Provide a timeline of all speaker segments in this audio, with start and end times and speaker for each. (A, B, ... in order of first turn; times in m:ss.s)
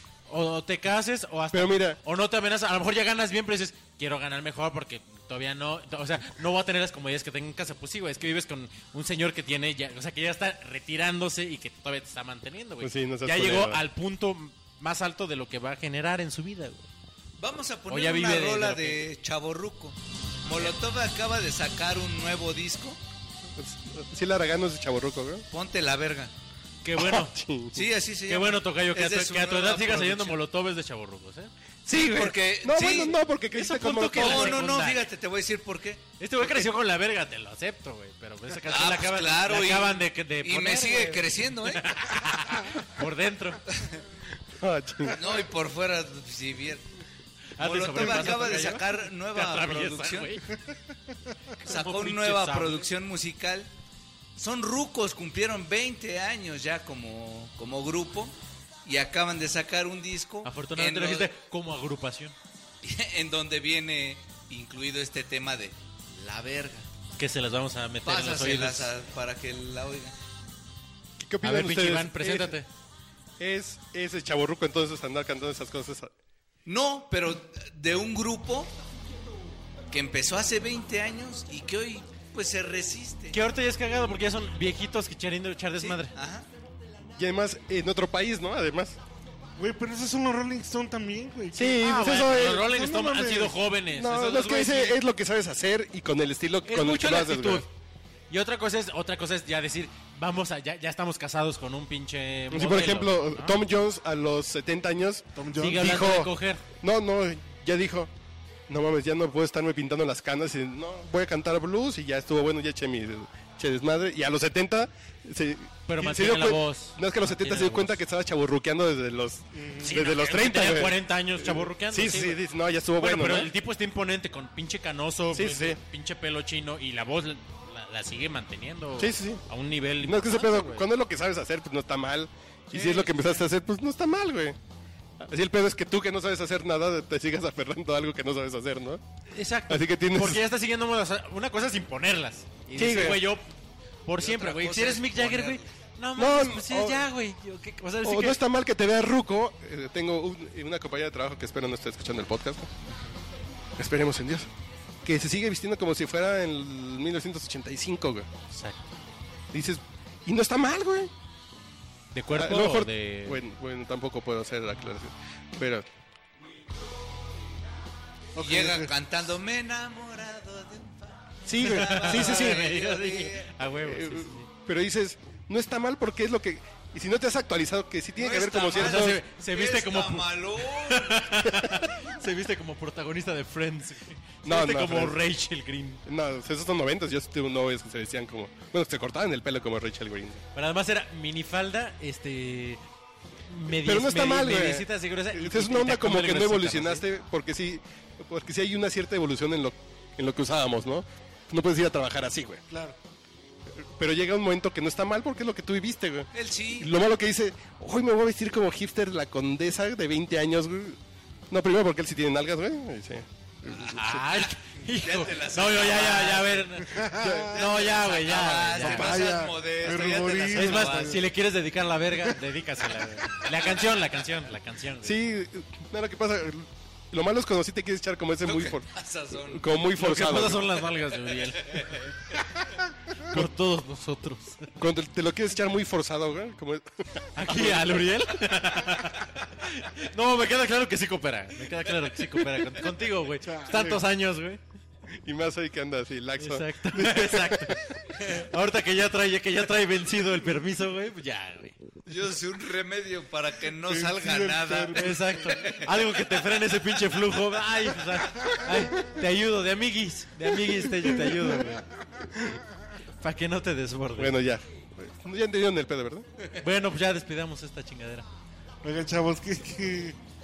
0:00.3-0:16.9 A
0:01.5-0:02.0 B
0:12.8-0:13.8 B
0:17.4-0:23.0 C
0:17.9-0:19.0 A
0:23.6-0:25.4 B
0:25.5-0:26.3 C
0:26.8-0:27.4 A
0:27.0-0:27.8 B
0:27.7-0:30.4 C
0:28.3-0:31.5 A
0:31.9-0:34.7 B
0:32.0-0:33.2 C
0:33.5-0:35.1 A
0:34.1-0:36.6 C
0:36.2-0:43.6 A
0:38.7-0:42.0 C
0:43.7-0:44.0 C
0:44.5-0:45.3 B
0:45.1-0:46.8 C
0:47.6-0:50.5 A
0:47.6-0:50.4 C
0:48.2-0:48.5 D
0:51.6-0:52.9 A
0:51.6-0:53.7 C
0:54.4-1:01.3 C
1:00.4-1:02.4 A
1:02.8-1:06.9 C
1:07.2-1:08.9 A
1:08.0-1:10.1 C
1:11.2-1:12.6 B
1:11.4-1:12.7 A
1:13.4-1:16.1 B
1:16.6-1:18.7 C
1:19.9-1:23.4 C
1:23.3-1:26.1 A
1:25.8-1:26.5 C
1:27.2-1:29.0 B
1:29.6-1:33.6 D
1:31.5-1:32.6 B
1:31.6-1:35.0 A
1:33.9-1:37.6 B
1:36.6-1:37.7 A
1:38.3-1:43.6 A
1:42.5-1:48.1 B
1:45.4-1:45.9 D
1:45.6-1:46.6 A
1:48.7-2:03.5 B
1:55.9-1:58.0 A
1:59.6-1:59.9 D
1:59.8-2:02.4 A
2:03.0-2:10.9 A
2:05.3-2:05.8 B
2:09.0-2:09.4 B
2:10.0-2:14.6 B
2:12.7-2:13.4 A
2:15.2-2:19.0 B
2:19.3-2:23.4 A
2:19.7-2:20.4 B
2:22.7-2:23.3 B
2:24.1-2:28.4 A
2:24.2-2:25.7 C
2:26.2-2:27.1 B
2:28.0-2:32.7 B
2:33.8-2:34.5 B
2:35.0-2:38.3 B
2:38.5-2:38.8 A
2:39.5-2:41.1 B
2:42.1-2:43.4 A
2:42.3-2:45.8 B
2:48.4-2:48.9 D
2:48.4-2:53.6 C
2:51.4-2:52.6 B
2:51.6-2:54.5 A
2:53.8-2:59.2 B
2:58.2-3:01.3 C
2:58.7-3:06.0 A
3:04.4-3:05.2 B
3:06.1-3:10.4 B
3:10.6-3:12.8 A
3:13.5-3:17.0 A
3:13.7-3:22.6 B
3:22.7-3:23.0 D
3:23.7-3:31.0 B
3:26.3-3:26.9 C
3:31.5-3:34.2 B
3:33.7-3:39.2 A
3:35.0-3:36.9 C
3:36.9-3:37.6 D
3:37.1-3:37.6 B
3:37.5-3:41.2 C
3:38.8-3:41.2 D
3:40.5-3:45.2 A
3:45.0-3:48.9 B
3:48.4-3:49.8 C
3:49.4-3:50.7 B
3:50.0-3:52.0 A
3:51.6-3:52.1 C
3:53.2-3:54.7 A
3:54.8-3:58.4 B
3:57.4-4:04.6 A
4:03.4-4:04.0 D
4:05.2-4:07.8 B
4:06.4-4:11.8 A
4:12.1-4:16.7 C
4:13.8-4:15.6 D
4:15.0-4:21.9 A
4:20.9-4:21.6 B
4:23.2-4:24.4 A
4:24.2-4:26.3 B
4:26.6-4:28.2 A
4:28.8-4:30.2 D